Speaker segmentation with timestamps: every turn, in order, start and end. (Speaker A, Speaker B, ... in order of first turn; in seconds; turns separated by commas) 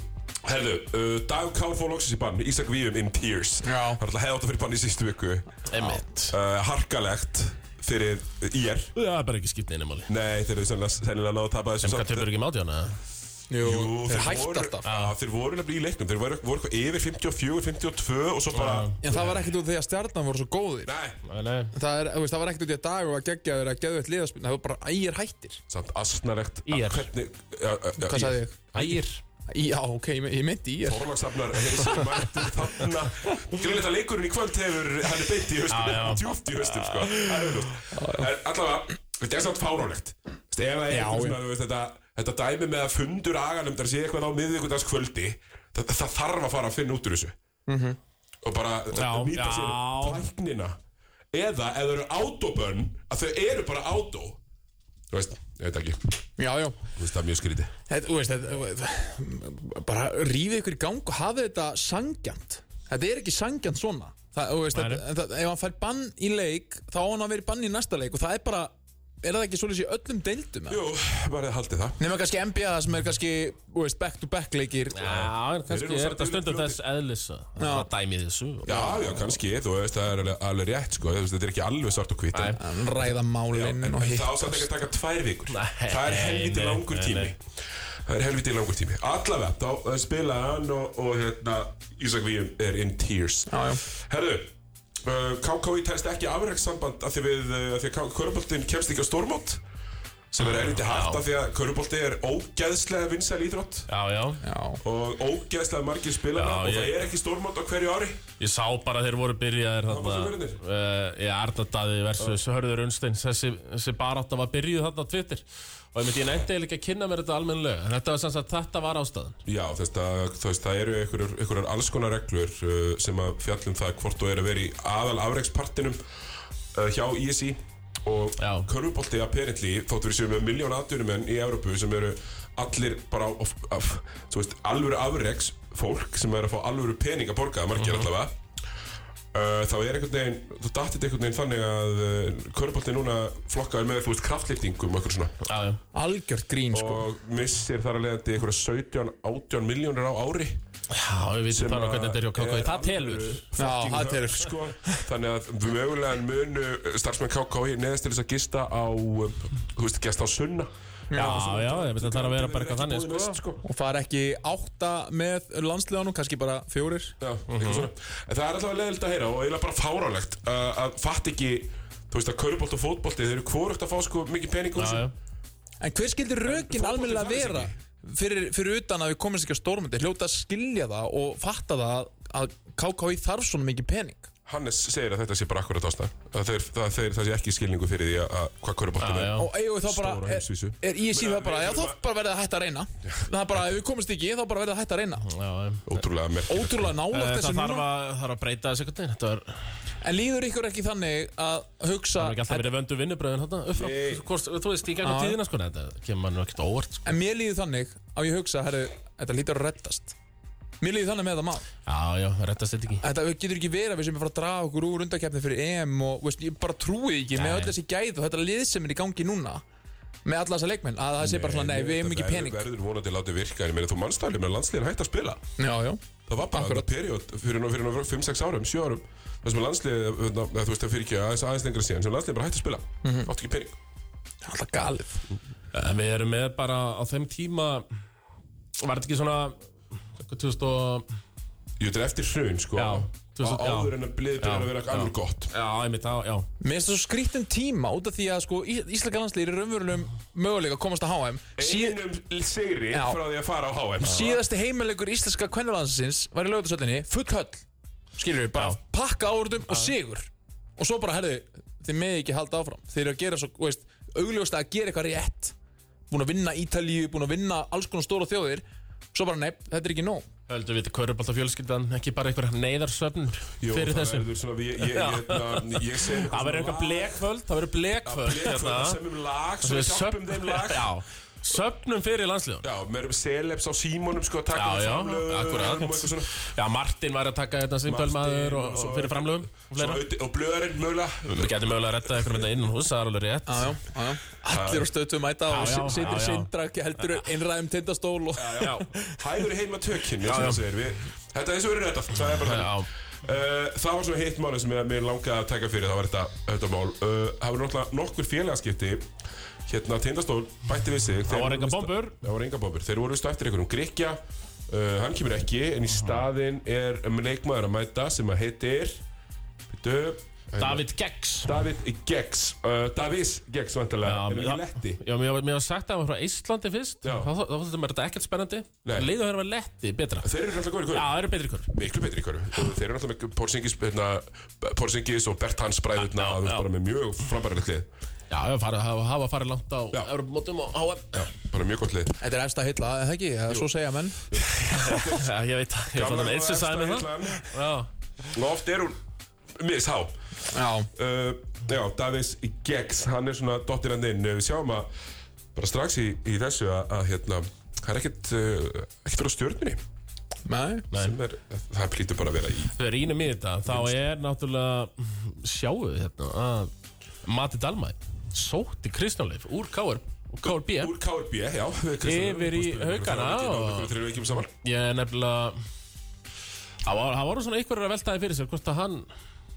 Speaker A: 0.4-5.5, Speaker B: 3.6-4.0, Speaker C: 5.7-6.3, Speaker A: 6.3-8.9, Speaker C: 8.9-10.1, Speaker A: 10.1-12.3, Speaker C: 11.8-13.0, Speaker B: 13.5-14.8, Speaker A: 13.6-18.9, Speaker C: 14.8-15.1, Speaker C: 18.5-19.4, Speaker B: 19.0-20.9, Speaker A: 20.8-21.2, Speaker C: 21.2-21.7, Speaker B: 21.7-25.6, Speaker A: 25.7-29.0, Speaker C: 26.6-27.1, Speaker B: 28.0-28.9, Speaker C: 28.8-29.1, Speaker B: 29.5-31.1, Speaker A: 30.8-47.4, Speaker C: 35.7-36.2, Speaker B: 37.9-38.2, Speaker B: 40.9-41.4, Speaker B: 47.7-48.0, Speaker A: 48.4-50.8, Speaker C: 48.9-50.2, Speaker A: 51.3-54.4, Speaker A: 55.1-56.0, Speaker B: 56.4-56.8, Speaker A: 57.0-57.7, Speaker B: 57.9-70.8, Speaker C: 64.7-65.0, Speaker A: 70.7-72.0, Speaker B: 72.0-75.2, Speaker C: 74.9-78.8, Speaker A: 75.0-76.8, Speaker B: 77.6-77.9, Speaker B: 78.6-79.3, Speaker A: 78.7-82.6, Speaker C: 82.3-82.6, Speaker B: 82.6-84.7, Speaker A: 83.5-87.5, Speaker C: 85.5-87.3, Speaker A: 88.0-99.6, Speaker B: 93.5-93.8, Speaker A: 100.3-103.9, Speaker C: 100.4-101.2, Speaker C: 103.9-104.4, Speaker B: 104.4-104.8, Speaker A: 104.8-108.2, Speaker C: 106.3-106.9, Speaker C: 108.4-119.4, Speaker A: 109.9-110.6, Speaker A: 119.5-126.0, Speaker A: 126.7-138.3, Speaker C: 128.4-128.7, Speaker C: 137.8-138.1, Speaker A: 139.3-145.3, Speaker C: 145.4-145.8, Speaker B: 145.9-147.0, Speaker A: 146.7-150.6, Speaker C: 150.9-153.4, Speaker A: 151.5-163.6, Speaker B: 153.6-155.0, Speaker B: 161.1-161.6, Speaker C: 161.1-163.4, Speaker B: 163.6-167.2, Speaker A: 167.2-175.1, Speaker C: 167.5-167.9, Speaker C: 174.8-175.1, Speaker B: 175.8-184.3, Speaker A: 176.4-177.7, Speaker A: 184.4-192.0, Speaker C: 189.0-189.5, Speaker B: 189.3-195.3, Speaker C: 195.2-195.8, Speaker A: 195.8-196.9, Speaker B: 196.5-197.8, Speaker C: 197.1-199.6, Speaker B: 200.0-202.7, Speaker C: 202.2-207.1, Speaker A: 203.7-204.2, Speaker B: 205.0-205.4, Speaker B: 207.0-210.1, Speaker B: 210.8-211.6, Speaker C: 211.8-213.0, Speaker B: 213.0-219.6, Speaker C: 217.3-217.7, Speaker B: 220.2-222.6, Speaker A: 221.2-225.4, Speaker B: 225.6-226.0, Speaker A: 226.3-233.8, Speaker B: 226.5-226.9, Speaker B: 233.0-233.3, Speaker B: 234.4-235.2, Speaker C: 235.7-237.8, Speaker C: 238.8-239.6, Speaker C: 240.2-241.1, Speaker A: 241.8-245.5, Speaker C: 242.8-246.4, Speaker B: 246.6-252.0, Speaker A: 251.6-254.4, Speaker B: 252.9-253.2, Speaker B: 254.0-257.6, Speaker B: 258.1-265.5, Speaker B: 266.1-270.2, Speaker C: 270.5-279.0, Speaker A: 273.6-277.2, Speaker A: 278.0-280.9, Speaker C: 279.6-282.6, Speaker A: 282.6-286.3, Speaker C: 284.5-290.0, Speaker A: 287.9-291.5, Speaker C: 291.3-293.8, Speaker B: 293.5-299.2, Speaker A: 294.5-294.9, Speaker C: 295.5-296.5, Speaker A: 298.4-309.1, Speaker C: 298.6-298.8, Speaker C: 300.2-300.6, Speaker C: 302.4-302.9, Speaker A: 309.7-319.0, Speaker C: 311.3-312.2, Speaker C: 316.0-316.2, Speaker A: 319.7-320.9, Speaker C: 320.6-321.6, Speaker A: 321.4-325.0, Speaker C: 324.0-330.3, Speaker A: 327.0-327.3, Speaker A: 328.8-329.1, Speaker A: 330.2-331.1, Speaker C: 330.9-331.7, Speaker A: 331.7-337.9, Speaker C: 336.0-336.6, Speaker C: 338.3-341.3, Speaker A: 341.1-342.2, Speaker B: 342.2-344.3, Speaker A: 344.3-345.3, Speaker C: 344.4-347.9, Speaker A: 345.9-347.5, Speaker A: 348.3-349.0, Speaker A: 349.5-350.1, Speaker B: 350.5-350.9, Speaker A: 350.9-354.9, Speaker A: 355.5-359.8, Speaker B: 360.4-360.9, Speaker C: 360.9-361.2, Speaker A: 360.9-362.7, Speaker C: 362.8-366.7, Speaker A: 363.7-364.0, Speaker C: 367.2-370.9, Speaker A: 370.4-374.5, Speaker C: 372.0-373.9, Speaker C: 374.6-375.6, Speaker C: 376.9-379.1